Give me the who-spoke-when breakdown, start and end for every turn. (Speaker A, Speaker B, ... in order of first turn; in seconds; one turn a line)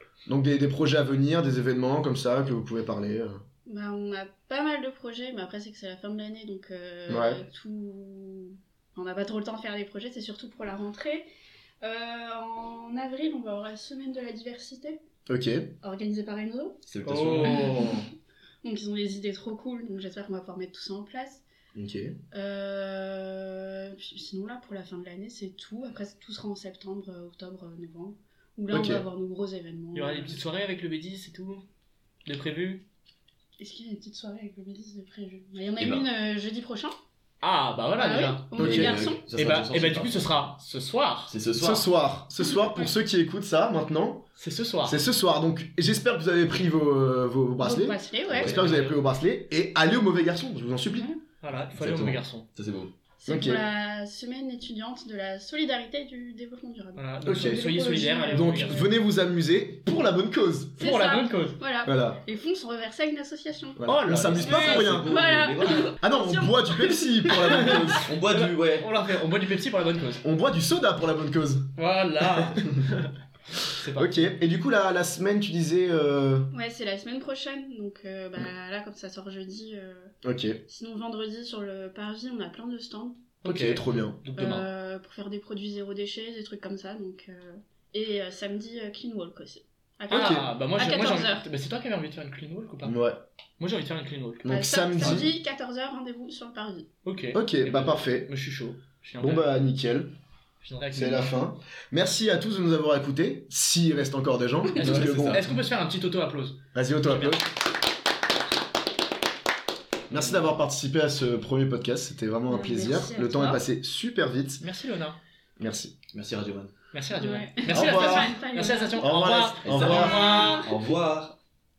Speaker A: 0.3-3.4
Speaker B: 3.6-11.3
Speaker A: 7.1-7.4
Speaker B: 11.8-15.0
Speaker A: 15.3-15.7
Speaker B: 15.8-16.8
Speaker C: 16.9-17.7
Speaker D: 17.0-18.0
Speaker B: 17.4-17.9
Speaker B: 18.6-21.4
Speaker A: 21.7-22.1
Speaker B: 22.3-30.4
Speaker A: 28.7-29.0
Speaker D: 29.9-31.6
Speaker D: 32.2-32.8
Speaker B: 33.6-36.9
Speaker C: 35.8-36.1
Speaker D: 37.4-41.3
Speaker B: 38.0-39.2
Speaker C: 38.5-40.3
Speaker A: 38.6-39.1
Speaker C: 41.3-41.9
Speaker A: 41.6-44.3
Speaker B: 42.5-42.9
Speaker D: 44.4-45.0
Speaker A: 44.8-51.1
Speaker B: 47.6-48.5
Speaker C: 48.3-48.6
Speaker D: 48.4-49.0
Speaker B: 50.9-51.2
Speaker D: 51.4-52.5
Speaker C: 51.7-52.9
Speaker B: 53.2-58.9
Speaker A: 53.3-53.6
Speaker D: 57.0-58.9
Speaker A: 57.2-60.8
Speaker D: 60.8-61.6
Speaker B: 60.8-63.9
Speaker A: 61.8-62.2
Speaker A: 63.8-65.1
Speaker D: 63.9-64.8
Speaker C: 64.1-65.9
Speaker B: 64.4-67.9
Speaker A: 66.0-68.1
Speaker D: 67.6-70.2
Speaker C: 68.0-68.9
Speaker A: 70.2-72.7
Speaker D: 71.8-73.1
Speaker D: 73.6-74.3
Speaker A: 73.9-76.5
Speaker B: 76.5-80.1
Speaker A: 80.2-80.6
Speaker B: 80.7-83.3
Speaker D: 83.4-84.7
Speaker A: 83.4-84.2
Speaker B: 84.3-91.4
Speaker D: 90.1-93.0
Speaker A: 90.1-90.5
Speaker A: 92.8-93.2
Speaker D: 93.6-95.2
Speaker A: 94.4-95.3
Speaker B: 94.5-96.9
Speaker D: 97.0-99.6
Speaker A: 97.3-98.3
Speaker A: 99.2-100.1
Speaker D: 100.6-101.4
Speaker A: 100.9-105.5
Speaker D: 104.8-107.5
Speaker C: 104.8-105.5
Speaker A: 106.7-107.5
Speaker A: 110.1-114.6
Speaker B: 112.5-113.6
Speaker D: 113.2-113.6
Speaker D: 114.6-115.2
Speaker A: 115.6-115.9
Speaker C: 116.1-116.7
Speaker D: 116.9-120.7
Speaker B: 117.1-119.1
Speaker A: 117.7-118.4
Speaker A: 119.0-120.5
Speaker C: 119.6-121.4
Speaker B: 119.9-120.7